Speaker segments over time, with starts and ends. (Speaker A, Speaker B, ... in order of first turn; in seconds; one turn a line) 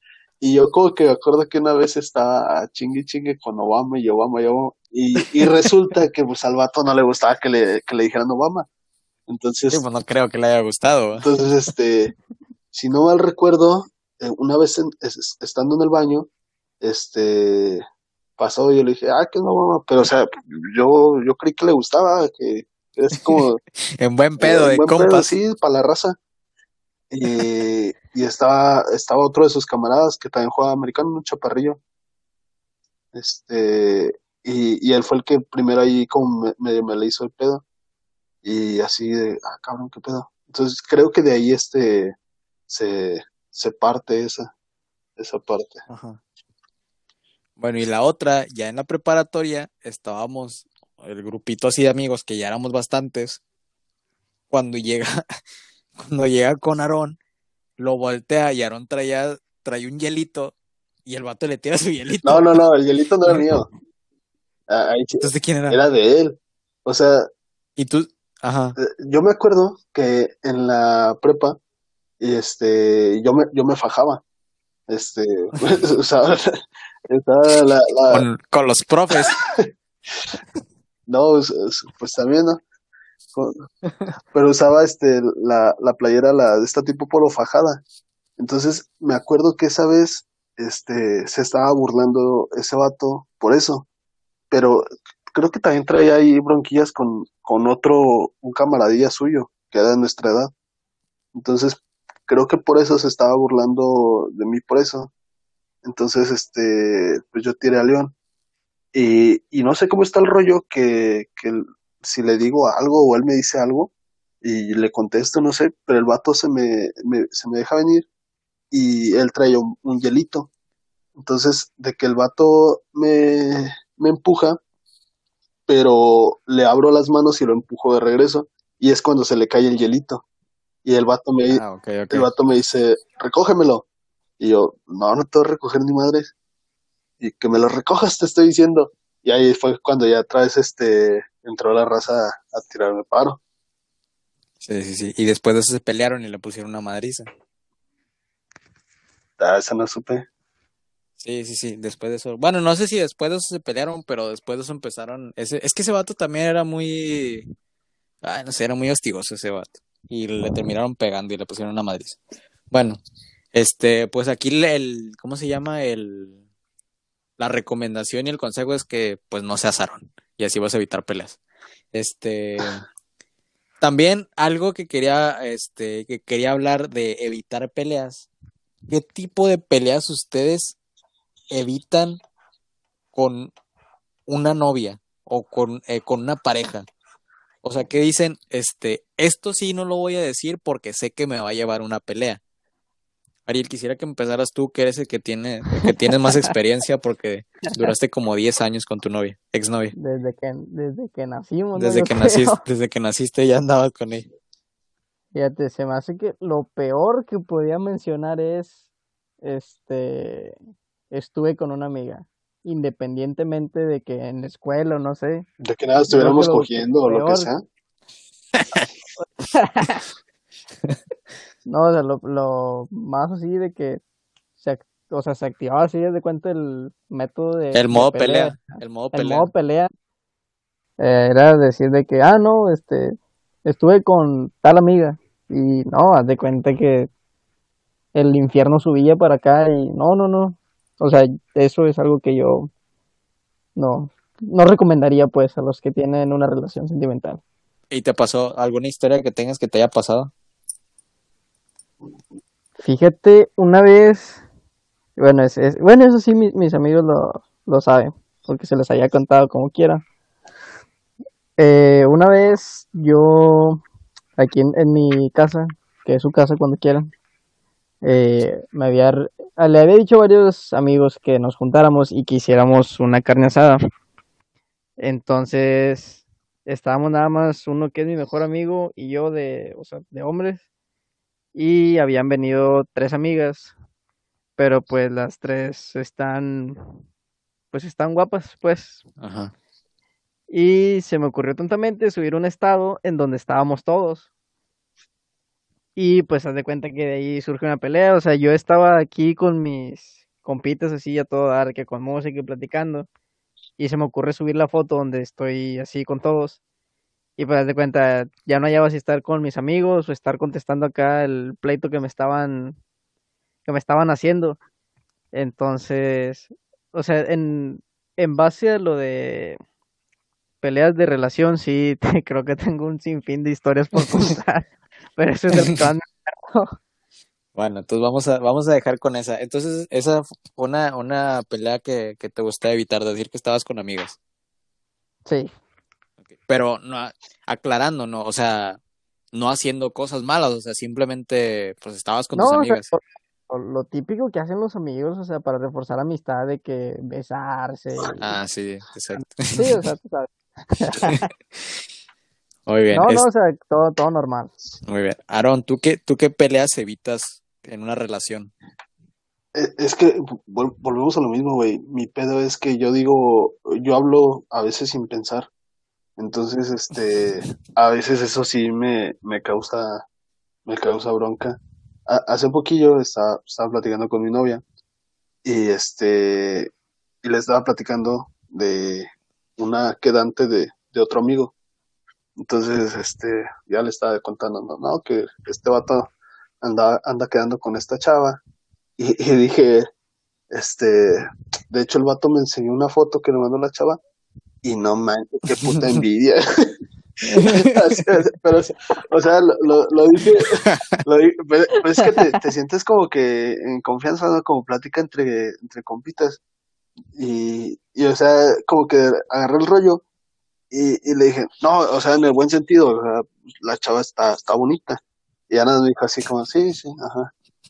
Speaker A: 0.4-8.7
Speaker A: 9.3-9.8
Speaker B: 9.7-11.3
Speaker A: 11.2-12.1
Speaker A: 12.7-16.3
Speaker A: 16.8-17.8
Speaker A: 18.4-23.6
Speaker B: 24.0-25.3
Speaker A: 24.4-26.2
Speaker A: 27.1-31.8
Speaker A: 33.1-37.6
Speaker A: 38.4-42.1
Speaker A: 42.7-44.5
Speaker A: 45.2-45.9
Speaker B: 45.9-46.2
Speaker B: 47.6-53.4
Speaker B: 54.5-55.2
Speaker B: 56.0-57.2
Speaker B: 57.8-60.5
Speaker B: 61.1-62.6
Speaker A: 62.2-63.7
Speaker A: 64.7-67.2
Speaker B: 65.2-65.8
Speaker B: 67.8-68.8
Speaker A: 68.8-71.6
Speaker A: 72.2-74.2
Speaker A: 74.9-76.4
Speaker A: 77.1-78.3
Speaker B: 78.1-79.4
Speaker A: 79.1-79.7
Speaker A: 81.1-82.6
Speaker A: 83.3-83.7
Speaker A: 84.3-87.8
Speaker A: 88.4-93.9
Speaker A: 94.5-100.5
Speaker A: 101.3-105.1
Speaker A: 105.8-108.1
Speaker A: 108.9-113.9
Speaker A: 114.4-118.1
Speaker A: 118.7-120.5
Speaker A: 121.2-124.6
Speaker A: 125.7-130.2
Speaker A: 130.8-133.9
Speaker B: 131.5-132.3
Speaker A: 134.4-136.3
Speaker A: 137.2-143.4
Speaker B: 144.6-147.3
Speaker A: 149.4-150.3
Speaker B: 151.2-157.5
Speaker B: 158.2-162.2
Speaker B: 162.7-163.0
Speaker B: 163.5-166.4
Speaker B: 167.4-171.4
Speaker B: 171.9-172.8
Speaker B: 173.8-178.3
Speaker B: 178.9-180.8
Speaker B: 181.5-182.2
Speaker B: 183.1-183.5
Speaker B: 184.3-186.9
Speaker B: 187.6-192.4
Speaker B: 193.5-199.9
Speaker C: 195.8-196.5
Speaker C: 199.9-202.6
Speaker B: 201.8-204.3
Speaker C: 205.3-208.8
Speaker C: 209.4-210.6
Speaker C: 211.1-215.5
Speaker A: 215.6-217.6
Speaker C: 216.0-217.5
Speaker B: 218.6-218.9
Speaker C: 219.2-220.0
Speaker C: 221.7-224.0
Speaker C: 224.6-229.9
Speaker B: 227.7-229.5
Speaker C: 231.0-237.1
Speaker C: 238.2-242.7
Speaker C: 243.8-247.4
Speaker B: 247.9-250.3
Speaker C: 252.8-254.4
Speaker C: 255.2-260.0
Speaker C: 261.6-263.8
Speaker C: 264.4-267.1
Speaker C: 268.0-273.8
Speaker C: 275.0-280.6
Speaker C: 281.5-283.7
Speaker C: 284.6-286.8
Speaker C: 287.7-289.0
Speaker B: 289.2-289.5
Speaker C: 290.5-294.3
Speaker C: 296.0-303.1
Speaker C: 303.8-306.6
Speaker C: 307.4-312.8
Speaker C: 313.7-314.6
Speaker C: 315.3-319.6
Speaker C: 320.6-324.7
Speaker C: 325.2-326.7
Speaker B: 325.5-325.8
Speaker B: 327.6-334.2
Speaker C: 335.3-335.5
Speaker B: 336.4-338.8
Speaker B: 339.3-342.9
Speaker C: 342.3-348.3
Speaker B: 348.2-349.8
Speaker C: 349.1-351.3
Speaker B: 351.0-351.7
Speaker B: 352.7-353.2
Speaker C: 352.9-354.5
Speaker B: 354.9-358.5
Speaker A: 359.6-365.5
Speaker A: 366.2-370.1
Speaker A: 370.7-374.6
Speaker A: 375.4-376.7
Speaker A: 377.2-381.5
Speaker A: 382.4-386.1
Speaker A: 386.6-388.4
Speaker A: 389.0-389.8
Speaker A: 390.5-394.0
Speaker A: 394.6-396.8
Speaker B: 395.7-396.0
Speaker B: 397.3-397.7
Speaker A: 397.4-406.4
Speaker B: 400.7-400.9
Speaker A: 407.1-410.0
Speaker A: 410.7-415.0
Speaker A: 415.5-417.3